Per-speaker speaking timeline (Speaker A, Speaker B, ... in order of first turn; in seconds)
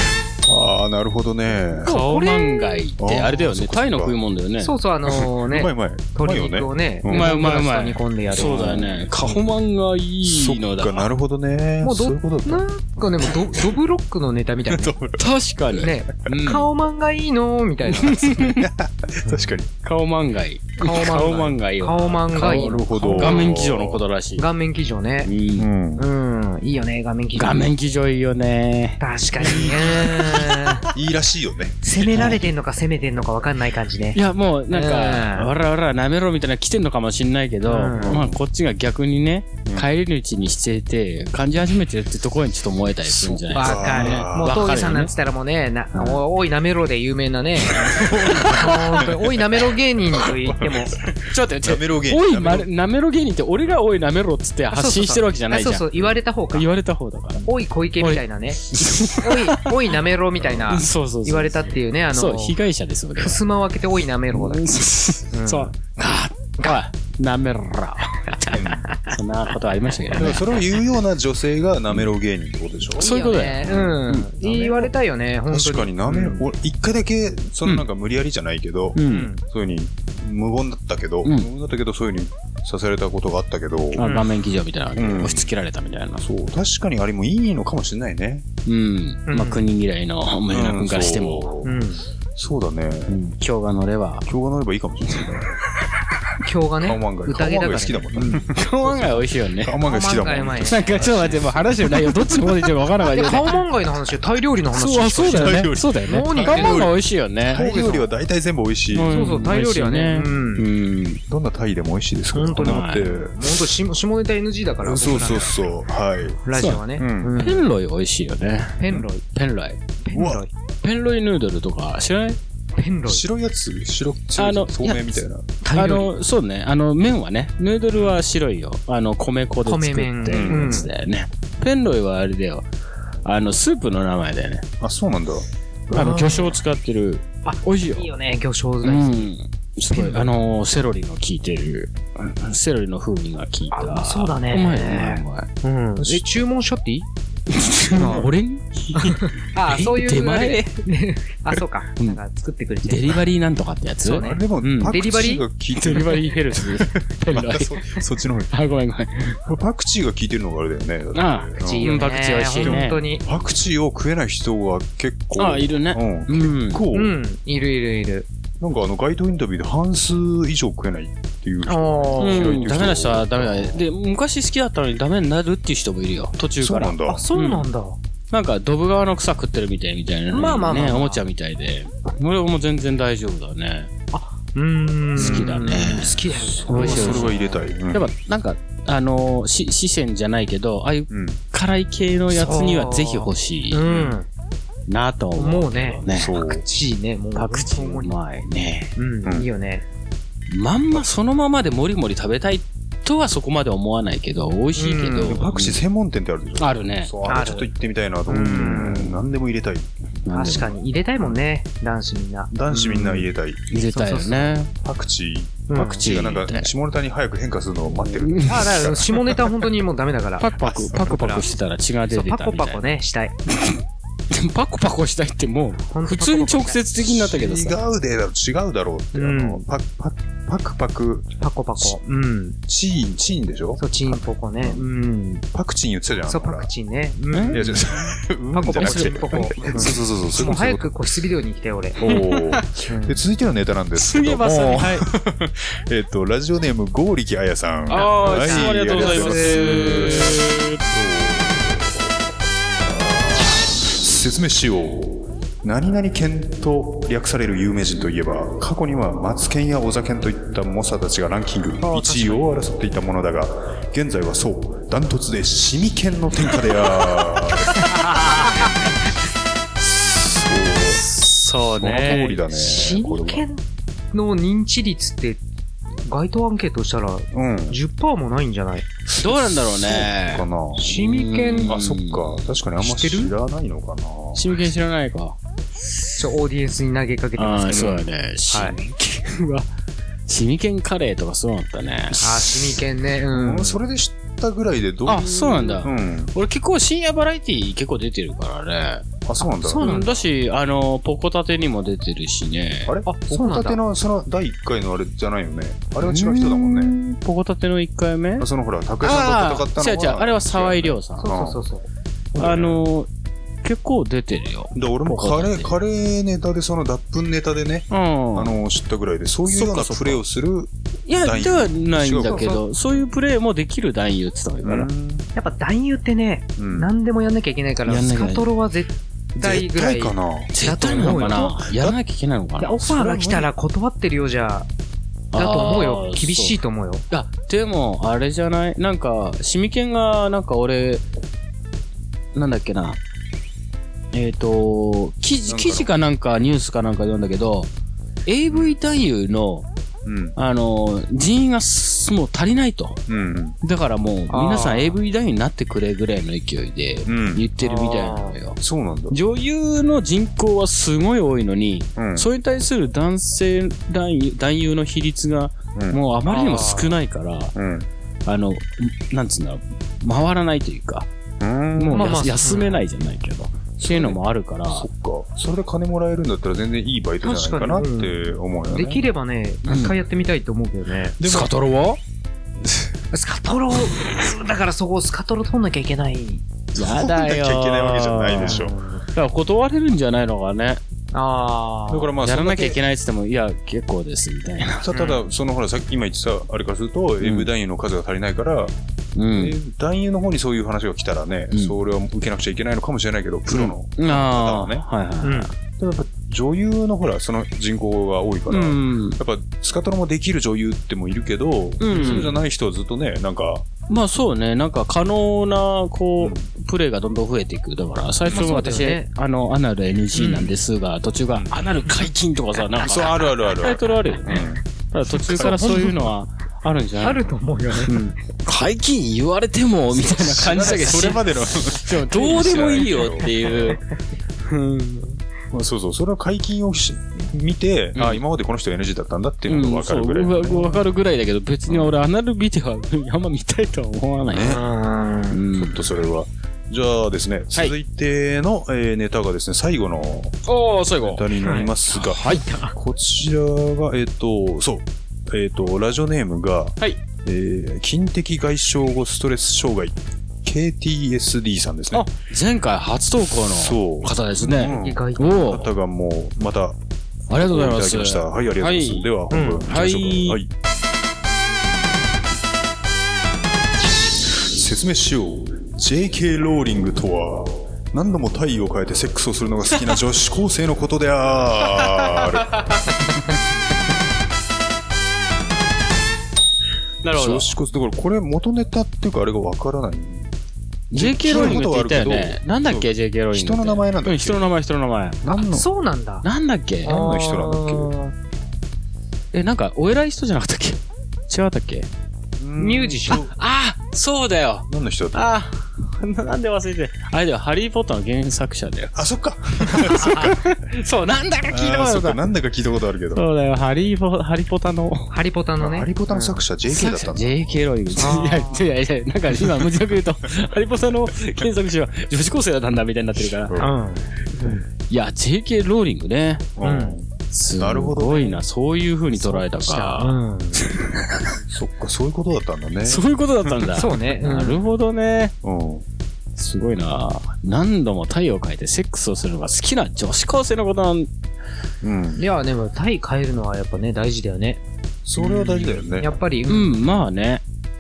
Speaker A: 0.4-1.9, 3.0-4.2, 5.1-7.4, 8.3-9.4, 10.2-13.8, 14.7-15.2, 18.3-19.7, 22.4-24.0, 25.6-26.0, 29.4-32.4, 38.0-38.4, 43.0-44.7, 47.7-49.2, 50.2-50.7, 51.6-52.7, 68.5-68.9, 70.1-73.1, 73.6-74.0, 75.5-84.2, 85.0-85.5, 86.2-88.5, 90.5-91.8, 92.3-93.2, 94.2-95.6, 96.8-102.2, 105.2-109.3, 111.3-113.7, 114.8-116.4, 117.0-117.3, 120.1-120.4, 123.1-125.5, 127.9-128.2, 130.3-130.9, 134.8-135.4, 146.0-146.2, 147.9-148.3, 154.1-158.5, 159.4-162.0, 162.6-167.2, 168.6-173.8, 176.6-177.2, 185.2-188.1, 191.1-191.4, 193.9-194.2, 196.1-196.6, 205.3-209.9, 212.5-219.3, 227.0-232.0, 232.7-234.9, 235.5-236.7, 237.5-240.9, 242.0-252.1, 252.8-268.7, 269.8-271.1, 271.7-273.4, 277.3-277.8, 279.1-280.9, 281.6-284.6, 287.7-288.1, 293.3-296.3, 299.2-300.1, 302.9-306.9, 308.4-311.6, 312.3-312.8, 314.7-323.1, 324.6-325.3, 326.6-326.9, 329.4-332.0, 332.8-333.5, 345.5-345.9, 348.5-348.8, 350.0-350.4, 353.1-353.6, 357.1-357.5, 358.6-359.2, 362.0-362.3, 365.7-366.0, 367.5-367.9, 371.4-372.2, 373.8-379.1, 381.2-381.5, 382.6-382.9, 386.7-388.7, 391.9-392.8, 394.8-398.7, 399.3-404.8, 405.8-413.6, 416.2-416.5, 418.2-418.5, 422.8-424.6, 425.3-425.6, 429.9-433.8, 435.5-440.8, 441.7-441.9, 444.2-444.7, 445.5-450.4, 451.0-462.1, 463.5-466.8, 467.3-470.5, 474.3-483.1, 487.1-490.3, 490.9-494.4, 496.8-497.9, 502.4-503.3, 504.7-505.4, 508.9-510.4, 511.5-513.2, 515.6-517.5, 523.5-523.7, 526.6-528.3, 531.4-533.0, 535.4-535.8, 541.8-542.2, 545.0-546.1
Speaker B: 1.8-2.8, 4.6-8.8, 11.8-14.9, 15.8-18.4, 20.8-23.5, 24.4-25.3, 25.9-27.6, 29.0-30.9, 31.8-34.2, 34.7-35.5, 37.6-38.2, 43.5-51.0, 54.7-56.7, 57.4-62.6, 63.2-64.8, 65.3-65.7, 73.0-76.4, 79.0-79.4, 84.0-84.3, 89.3-89.7, 91.6-92.0, 96.4-98.5, 99.8-101.3, 103.1-106.9, 107.5-108.1, 109.1-110.7, 112.3-115.5, 116.4-117.7, 118.8-119.2, 120.0-120.5, 122.8-123.2, 125.6-126.1, 129.6-130.9, 135.9-136.6, 137.4-139.3, 139.9-140.3, 143.7-147.1, 147.9-148.3, 148.9-153.2, 154.0-155.4, 161.6-163.2, 166.9-168.3, 171.7-172.7, 177.1-178.0, 180.3-181.2, 184.1-187.4, 192.3-194.3, 195.3-198.2, 198.9-199.8, 204.8-205.4, 207.2-207.7, 208.3-209.1, 210.3-213.2, 213.9-214.4, 215.7-216.0, 218.5-221.5, 222.1-223.3, 225.9-226.8, 229.1-229.6, 231.4-232.6, 233.8-235.4, 236.3-237.7, 238.5-242.0, 242.9-243.2, 247.9-250.4, 261.8-262.6, 267.9-268.7, 272.5-275.4, 276.0-278.8, 280.8-281.7, 282.8-283.3, 286.2-287.9, 288.5-288.8, 292.2-293.8, 299.4-300.2, 303.1-303.8, 311.2-311.9, 322.2-322.6, 325.3-331.6, 332.6-334.7, 335.3-337.0, 354.3-355.0, 357.6-358.4, 366.2-367.0, 371.9-372.8, 377.2-381.2, 383.1-386.4, 388.4-389.0, 391.1-392.1, 394.9-395.2, 405.2-405.5, 411.9-412.3, 418.3-419.1, 420.2-420.5, 425.3-425.9, 427.0-428.0, 444.4-445.4, 451.4-452.8, 464.4-465.4, 469.3-469.6, 495.2-496.2, 496.8-498.1, 502.6-503.2, 509.8-510.3, 515.1-516.4, 518.0-518.6, 523.6-524.6, 526.6-527.0, 529.1-530.6, 533.7-534.6, 542.2-544.6, 545.2-546.7
Speaker C: 1.8-4.7, 7.1-11.1, 15.2-16.7, 18.0-18.6, 19.8-24.5, 25.2-25.7, 27.4-30.7, 32.1-32.4, 34.1-45.1, 45.9-46.2, 48.3-49.0, 51.1-57.5, 58.0-59.7, 60.7-63.4, 64.3-70.6, 73.0-74.9, 79.0-79.3, 81.2-81.5, 83.9-86.2, 88.7-91.5, 93.1-94.3, 98.5-99.8, 100.6-103.6, 104.7-107.6, 108.9-111.2, 112.5-113.1, 116.5-116.8, 117.4-119.8, 120.8-122.4, 124.4-125.2, 125.7-132.7, 133.2-134.7, 135.9-138.1, 138.8-145.5, 147.5-150.7, 152.8-155.0, 155.8-159.4, 161.1-163.0, 165.3-166.8, 172.2-177.7, 178.3-183.9, 185.2-194.0, 194.9-196.3, 197.3-198.9, 200.5-205.8, 206.6-207.1, 210.2-210.7, 213.7-214.7, 215.7-216.7, 217.9-219.0, 220.4-222.8, 224.3-227.8, 237.3-237.8, 238.8-239.9, 242.0-242.7, 243.9-245.1, 247.9-250.8, 267.9-268.7, 270.9-272.4, 279.2-282.4, 284.3-285.4, 287.4-289.7, 290.3-292.7, 295.1-299.1, 299.8-302.9, 306.0-308.5, 309.0-311.3, 312.4-313.1, 313.6-315.7, 317.9-318.6, 319.5-320.2, 321.1-324.9, 327.9-328.4, 330.5-332.8, 335.3-336.6, 337.1-341.0, 342.3-343.0, 344.1-347.7, 348.2-349.7, 350.4-353.0, 353.6-358.6, 359.1-367.5, 368.2-371.1, 371.8-374.9, 379.7-379.9, 381.2-382.0, 386.7-390.8, 392.2-394.9, 397.2-397.5, 399.1-399.6, 403.5-405.5, 408.5-409.2, 411.8-412.3, 413.9-427.2, 427.9-433.8, 434.5-435.1, 437.9-438.2, 439.5-444.6, 445.3-445.8, 450.4-451.2, 451.9-452.4, 461.9-465.7, 467.3-469.1, 469.6-470.4, 481.7-482.8, 487.0-487.5, 490.9-495.6, 496.2-496.9, 499.3-501.9, 503.1-509.0, 509.7-512.2, 513.1-515.1, 516.7-523.6, 524.4-526.5, 527.3-531.4, 532.8-535.3, 536.4-541.1, 546.5-547.4